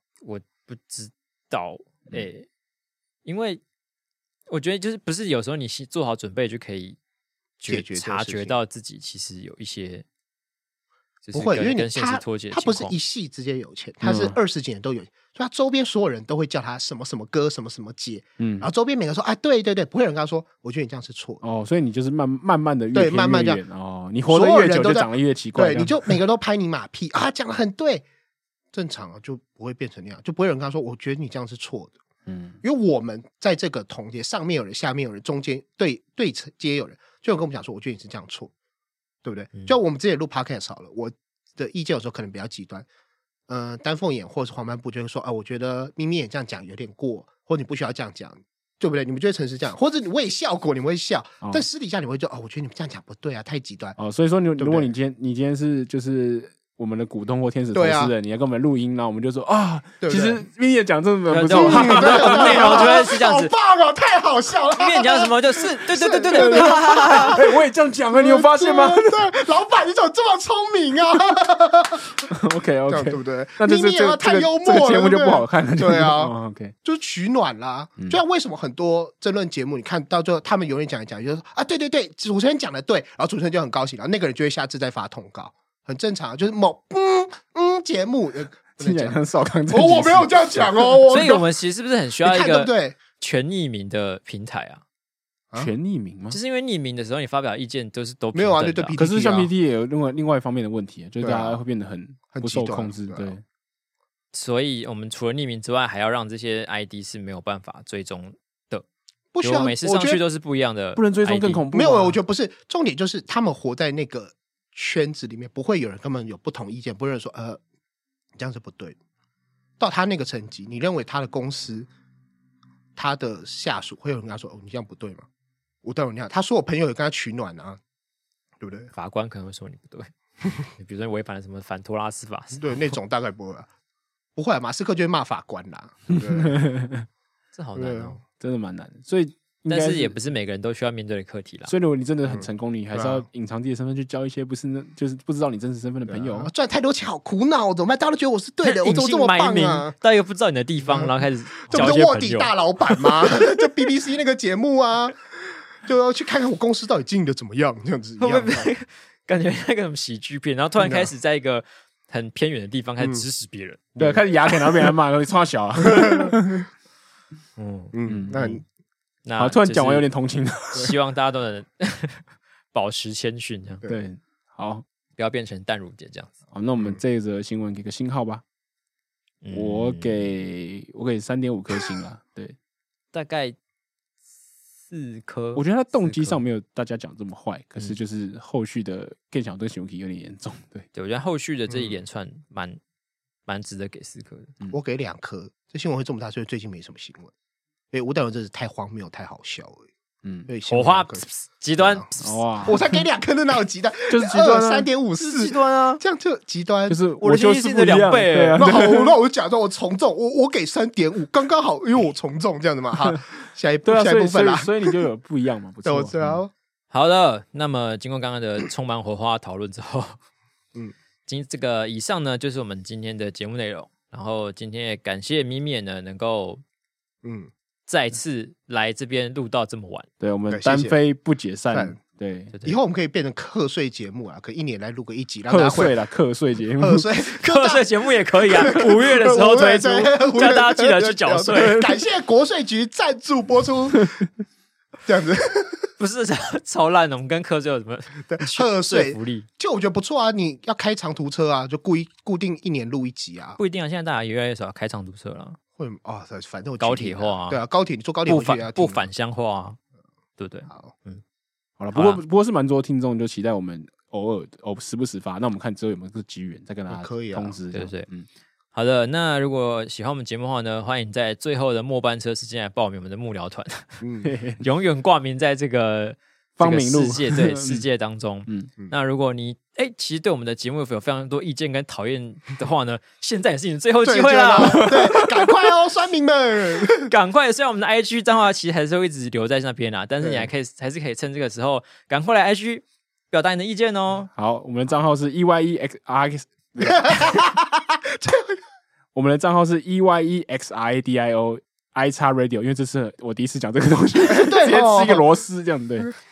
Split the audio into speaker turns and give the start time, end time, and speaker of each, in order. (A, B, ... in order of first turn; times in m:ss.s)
0:00.2-0:02.5 A
0:03.2-0:03.6 A
0:04.5-0:07.0 A
0:07.6-0:10.0 A
0:07.7-0:08.6 B
0:11.2-0:12.9 A
0:11.3-0:21.4 B
0:14.0-0:14.4 C
0:18.4-0:18.7 C
0:21.4-0:26.2 C
0:22.9-0:23.6 B
0:24.3-0:28.0 B
0:28.7-0:32.0 B
0:32.2-0:32.6 C
0:32.6-0:38.5 B
0:39.2-0:42.8 B
0:43.5-0:54.0 B
0:54.0-1:03.0 C
0:54.6-0:54.9 B
0:57.7-0:58.1 B
1:00.0-1:00.4 B
1:01.3-1:03.5 A
1:01.5-1:07.6 B
1:04.8-1:07.4 A
1:06.3-1:09.3 C
1:08.1-1:12.3 B
1:12.3-1:16.7 C
1:12.9-1:29.2 B
1:28.8-1:30.9 C
1:29.7-1:31.4 B
1:31.1-1:34.8 A
1:32.2-1:33.0 B
1:35.6-1:36.4 C
1:36.3-1:39.0 A
1:38.3-1:39.5 B
1:39.0-1:43.4 C
1:41.2-1:41.6 B
1:42.3-1:43.3 B
1:44.3-1:48.8 A
1:49.3-1:50.2 B
1:49.4-1:51.6 A
1:51.0-1:52.2 C
1:51.7-1:57.6 B
1:58.4-1:59.0 B
1:59.8-2:01.9 B
2:03.0-2:05.2 B
2:05.8-2:07.8 B
2:08.6-2:08.9 B
2:08.9-2:10.1 A
2:10.6-2:12.7 A
2:12.6-2:13.7 B
2:14.4-2:16.7 B
2:16.4-2:17.0 C
2:17.5-2:18.2 A
2:17.8-2:18.2 B
2:18.4-2:20.1 C
2:19.7-2:21.7 A
2:21.7-2:26.5 C
2:22.2-2:23.2 B
2:26.1-2:29.9 B
2:28.6-2:33.2 A
2:30.8-2:38.7 B
2:38.2-2:43.8 A
2:40.8-2:41.1 B
2:43.0-2:43.2 B
2:44.0-2:44.2 B
2:44.0-2:46.6 C
2:45.8-2:46.4 B
2:47.6-2:47.9 A
2:47.9-2:48.6 B
2:48.1-2:48.6 C
2:49.2-2:50.1 A
2:49.4-2:50.9 C
2:50.7-2:53.8 A
2:53.8-2:54.8 C
2:55.2-2:56.3 A
2:56.5-2:58.4 C
2:59.4-3:00.3 A
2:59.5-3:02.6 C
3:03.1-3:03.6 A
3:04.9-3:06.4 A
3:05.5-3:10.8 C
3:10.9-3:12.8 A
3:11.7-3:12.0 B
3:13.4-3:14.5 A
3:14.7-3:17.3 B
3:17.9-3:19.9 B
3:20.2-3:20.5 C
3:20.5-3:21.3 B
3:20.7-3:22.4 A
3:21.8-3:22.1 B
3:22.2-3:22.9 C
3:22.6-3:27.0 B
3:24.1-3:24.9 C
3:25.2-3:26.0 A
3:26.9-3:29.1 C
3:27.2-3:28.7 A
3:28.6-3:35.0 B
3:33.8-3:36.4 C
3:35.8-3:36.5 B
3:36.9-3:40.2 A
3:41.2-3:46.6 A
3:47.2-3:47.5 B
3:47.9-3:50.1 A
3:50.2-3:52.5 C
3:50.5-3:51.0 B
3:51.7-3:52.0 B
3:52.5-3:52.8 A
3:52.6-3:56.0 B
3:55.5-3:57.1 C
3:56.8-4:04.3 B
3:57.2-4:01.8 A
4:01.5-4:02.0 C
4:05.0-4:05.9 B
4:06.0-4:09.5 A
4:08.2-4:13.6 B
4:13.6-4:15.6 A
4:15.8-4:19.0 B
4:16.8-4:17.6 A
4:18.2-4:19.8 A
4:20.4-4:21.2 A
4:21.8-4:28.3 C
4:21.9-4:22.2 A
4:26.9-4:27.6 B
4:27.7-4:28.1 A
4:28.7-4:34.0 A
4:34.0-4:34.3 B
4:34.2-4:34.6 C
4:34.6-4:45.1 A
4:36.6-4:37.8 C
4:44.0-4:47.1 B
4:44.8-4:45.3 C
4:47.0-4:54.3 A
4:50.2-4:50.5 B
4:54.3-4:57.4 C
4:56.8-4:58.6 B
4:59.1-5:06.1 C
5:04.3-5:05.2 B